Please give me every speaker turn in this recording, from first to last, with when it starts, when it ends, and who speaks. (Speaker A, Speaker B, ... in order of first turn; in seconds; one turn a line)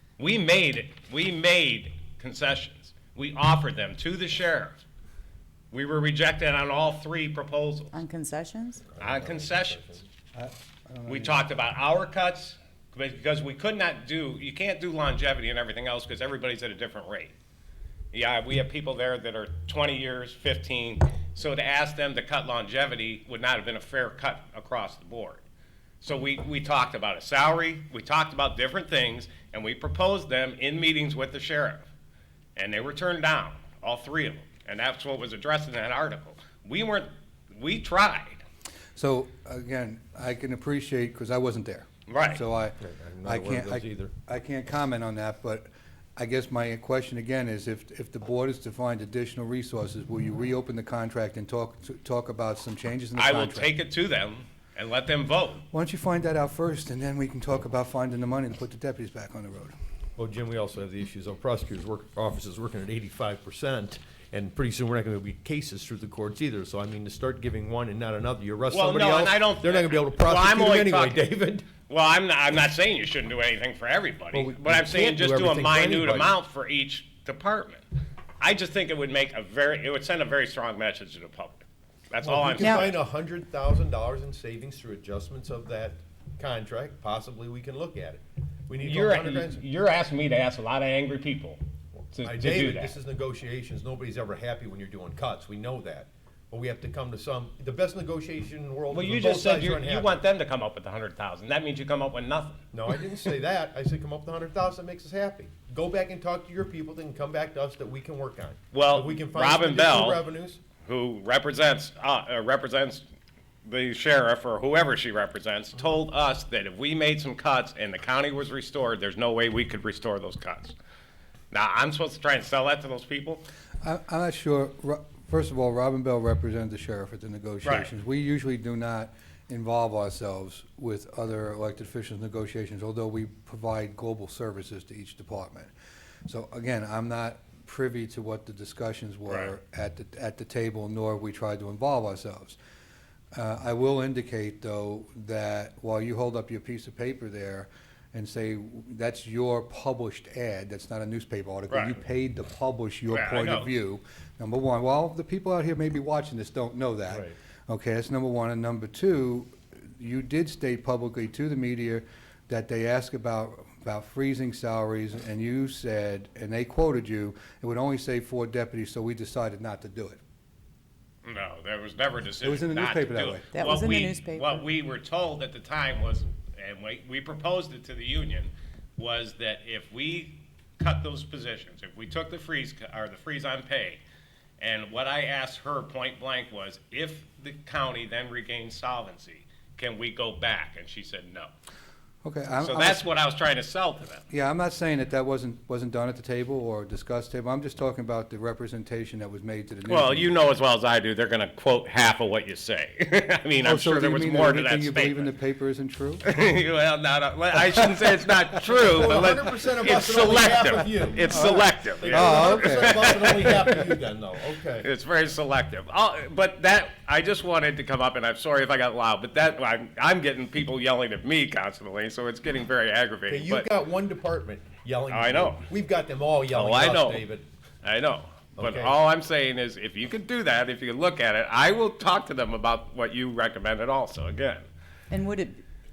Speaker A: 0.2-4.8
Speaker A: 5.7-7.9
Speaker B: 7.9-8.9
Speaker C: 8.9-10.0
Speaker A: 9.0-9.8
Speaker D: 10.3-11.5
Speaker A: 11.1-17.3
Speaker A: 18.1-25.4
Speaker A: 26.0-31.9
Speaker A: 32.5-38.4
Speaker D: 39.0-53.7
Speaker A: 42.1-42.4
Speaker C: 42.8-44.1
Speaker A: 53.1-55.6
Speaker D: 55.7-59.7
Speaker C: 60.2-71.7
Speaker A: 68.7-77.8
Speaker C: 74.3-76.3
Speaker A: 78.4-83.0
Speaker C: 82.2-89.6
Speaker B: 82.6-82.9
Speaker A: 88.8-91.6
Speaker A: 92.1-92.9
Speaker C: 92.2-100.2
Speaker A: 98.9-102.6
Speaker C: 102.7-110.6
Speaker A: 108.7-110.2
Speaker A: 110.8-113.0
Speaker A: 113.6-120.7
Speaker A: 121.5-123.4
Speaker D: 123.8-135.7
Speaker A: 127.6-127.9
Speaker D: 136.2-142.6
Speaker A: 139.3-139.5
Speaker D: 143.3-170.2
Speaker A: 151.7-152.0
Speaker A: 153.1-153.7
Speaker A: 171.2-184.0
Speaker D: 172.4-173.4
Speaker B: 173.5-174.6
Speaker A: 184.6-191.5
Speaker D: 192.2-193.1
Speaker A: 192.6-194.2
Speaker D: 194.3-200.3
Speaker A: 199.9-205.3
Speaker D: 203.6-206.2
Speaker A: 206.2-213.7
Speaker C: 208.8-211.4
Speaker D: 211.3-213.4
Speaker C: 212.0-214.9
Speaker A: 214.8-223.7
Speaker C: 223.3-227.4
Speaker A: 225.1-225.7
Speaker A: 226.5-227.2
Speaker A: 227.8-234.7
Speaker C: 228.6-229.0
Speaker B: 235.1-235.6